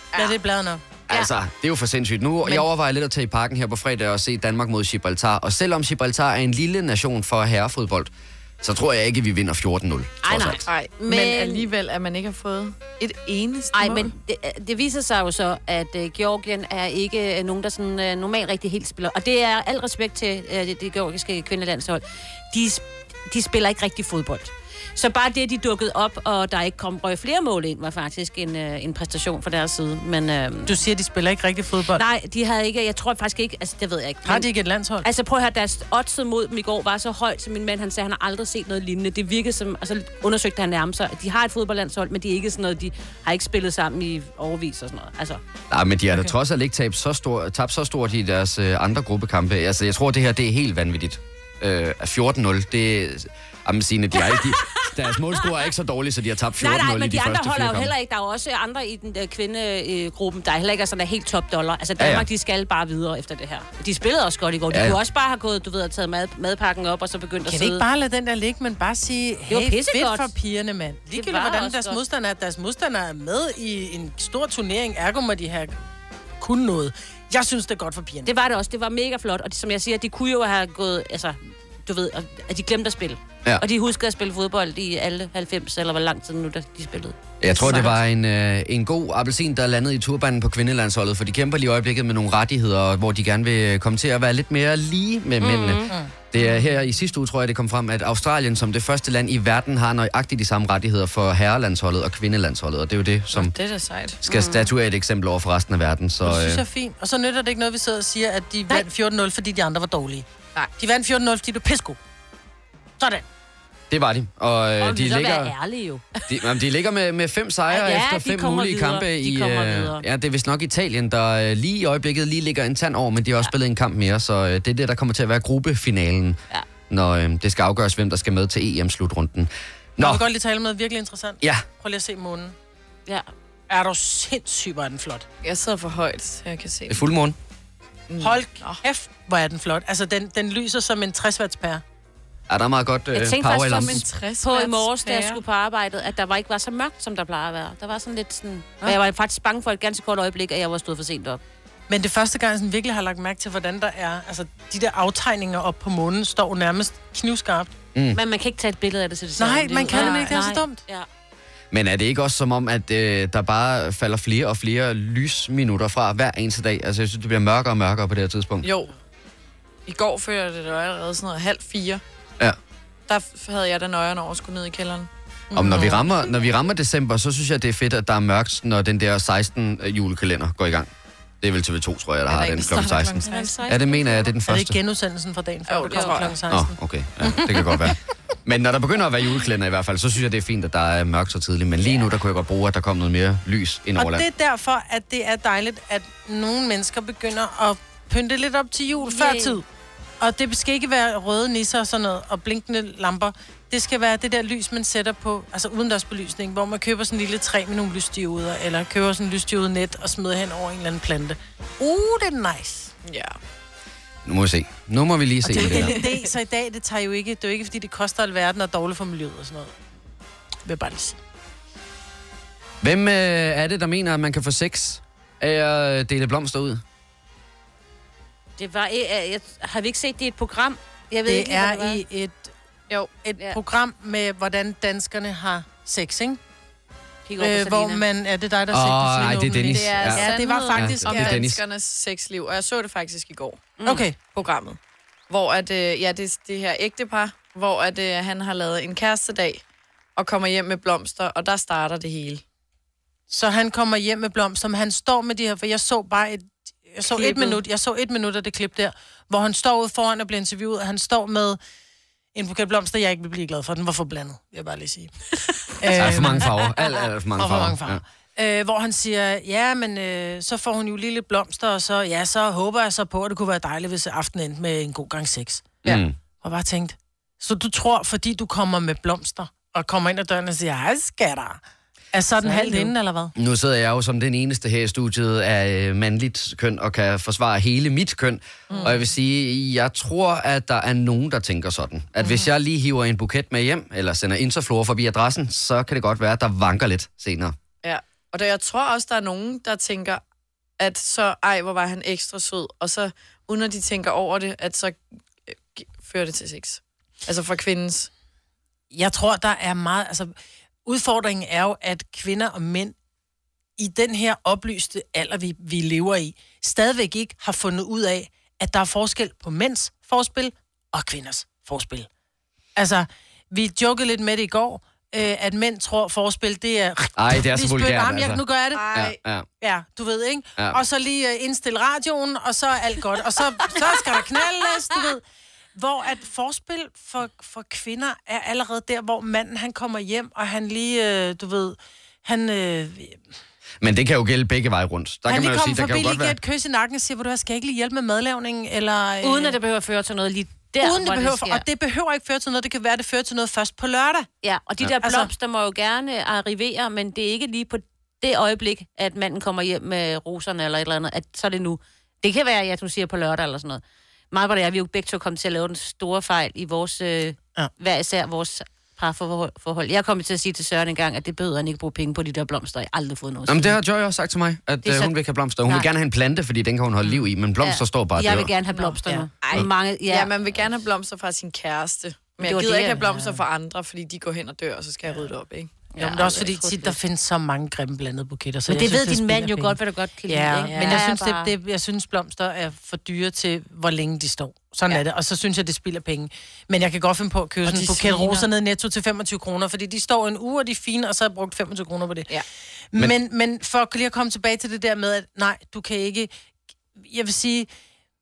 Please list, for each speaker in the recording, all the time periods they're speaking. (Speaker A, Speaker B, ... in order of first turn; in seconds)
Speaker A: 0.1-0.8, 30.6-32.0, 34.2-35.0, 67.4-75.7, 76.4-78.3, 106.2-110.2, 110.8-112.0, 130.0-132.5, 133.7-135.2, 138.2-141.8, 151.9-157.7, 159.4-160.8, 184.5-186.7, 187.3-187.6, 193.9-199.6, 200.2-212.9, 215.5-219.7, 220.6-221.2, 231.2-232.5, 233.2-236.4, 237.4-241.4, 243.8-244.2, 253.3-261.6, 262.3-265.1, 265.8-266.6, 267.4-275.8, 276.4-281.6, 282.1-283.3, 308.9-310.3, 310.9-312.9, 313.8-322.1, 322.8-329.0, 329.6-335.2, 335.8-343.2, 345.3-349.6, 350.8-354.3, 355.0-355.3, 386.0-389.8, 390.3-402.4, 402.9-406.3, 407.0-407.7
Speaker B: 1.1-10.7, 45.7-57.9, 62.0-62.3, 64.7-65.0, 87.4-103.5, 104.2-106.6, 113.9-115.5, 116.3-126.4, 126.9-130.2, 136.9-137.4, 142.5-144.0, 161.7-168.7, 175.5-180.9, 181.4-184.8, 186.5-194.2, 214.2-216.0, 222.8-226.8, 238.7-241.6, 265.9-268.0, 275.8-276.1, 283.4-297.5, 327.2-328.4, 328.9-329.4, 343.8-346.4, 373.5-378.5
Speaker C: 10.2-11.7, 13.7-30.7, 31.9-45.4, 54.2-54.9, 56.6-67.8, 69.5-70.3, 71.1-72.0, 78.2-88.0, 95.4-96.4, 104.2-104.7, 114.8-116.1, 117.7-120.0, 143.1-151.4, 158.1-161.1, 183.2-184.3, 185.9-186.2, 199.0-199.6, 228.6-232.0, 237.3-238.0, 243.8-244.1, 257.2-257.6, 282.4-282.9, 349.2-351.6, 354.4-373.8, 374.8-375.1, 377.6-380.3, 382.4-383.3, 385.9-387.0, 388.7-391.5
Speaker D: 10.7-14.1, 103.3-104.2, 135.4-137.0, 138.1-138.8, 143.6-145.4, 159.9-160.3, 168.6-168.9, 169.9-172.0, 173.1-176.0, 182.3-183.5, 185.7-186.4, 213.0-213.4, 215.5-216.2, 239.7-243.7, 244.3-244.8, 245.3-249.6, 250.2-252.4, 288.7-289.0, 297.8-300.2, 300.8-308.1, 328.7-329.2, 378.8-385.8, 390.6-391.0, 397.6-398.4